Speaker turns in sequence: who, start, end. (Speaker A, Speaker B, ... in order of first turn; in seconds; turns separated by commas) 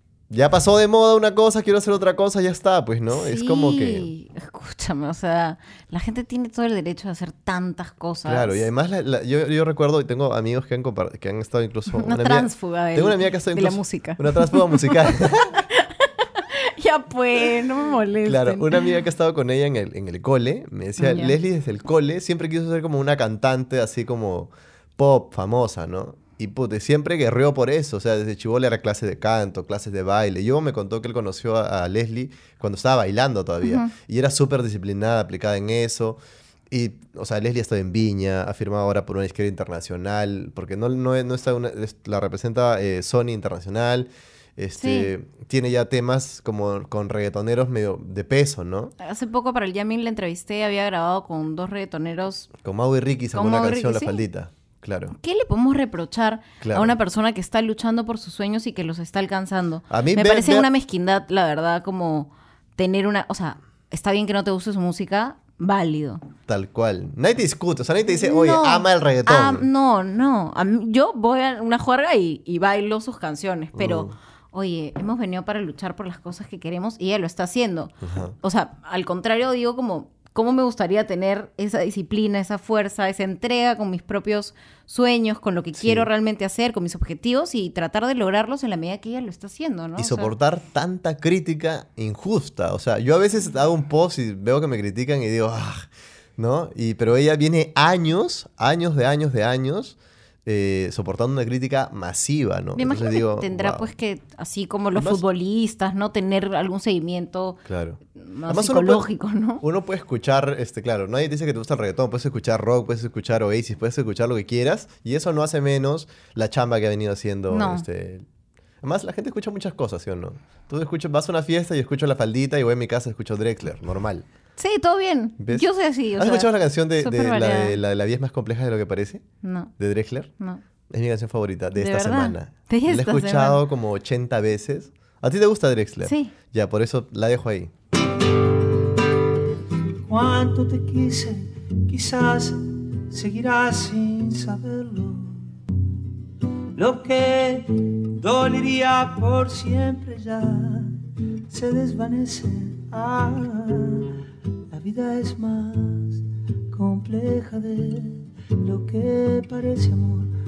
Speaker A: 0.3-4.1, Speaker B: 3.1-8.7, Speaker A: 8.2-15.6, Speaker B: 11.9-18.9, Speaker A: 18.2-48.9, Speaker B: 21.0-21.4, Speaker B: 33.6-33.9, Speaker B: 44.8-45.1, Speaker B: 49.0-52.5, Speaker A: 52.6-55.1, Speaker B: 53.3-54.2, Speaker B: 55.1-66.2, Speaker A: 56.6-57.0, Speaker A: 59.9-60.7, Speaker A: 66.5-69.7, Speaker B: 68.1-90.3, Speaker A: 73.8-74.2, Speaker A: 78.0-78.4, Speaker A: 85.8-86.1, Speaker A: 90.0-103.9, Speaker B: 102.8-107.6, Speaker A: 104.9-105.2, Speaker A: 107.7-109.1, Speaker B: 108.2-109.6, Speaker A: 109.6-118.3, Speaker B: 117.5-117.8, Speaker A: 118.8-124.3, Speaker B: 124.6-127.8, Speaker A: 125.4-129.2, Speaker B: 129.4-129.7, Speaker A: 129.8-130.3, Speaker A: 130.9-137.7, Speaker B: 131.8-133.6, Speaker B: 136.0-136.3, Speaker C: 140.1-145.6, Speaker C: 146.8-151.0, Speaker C: 151.5-154.1, Speaker C: 154.7-160.3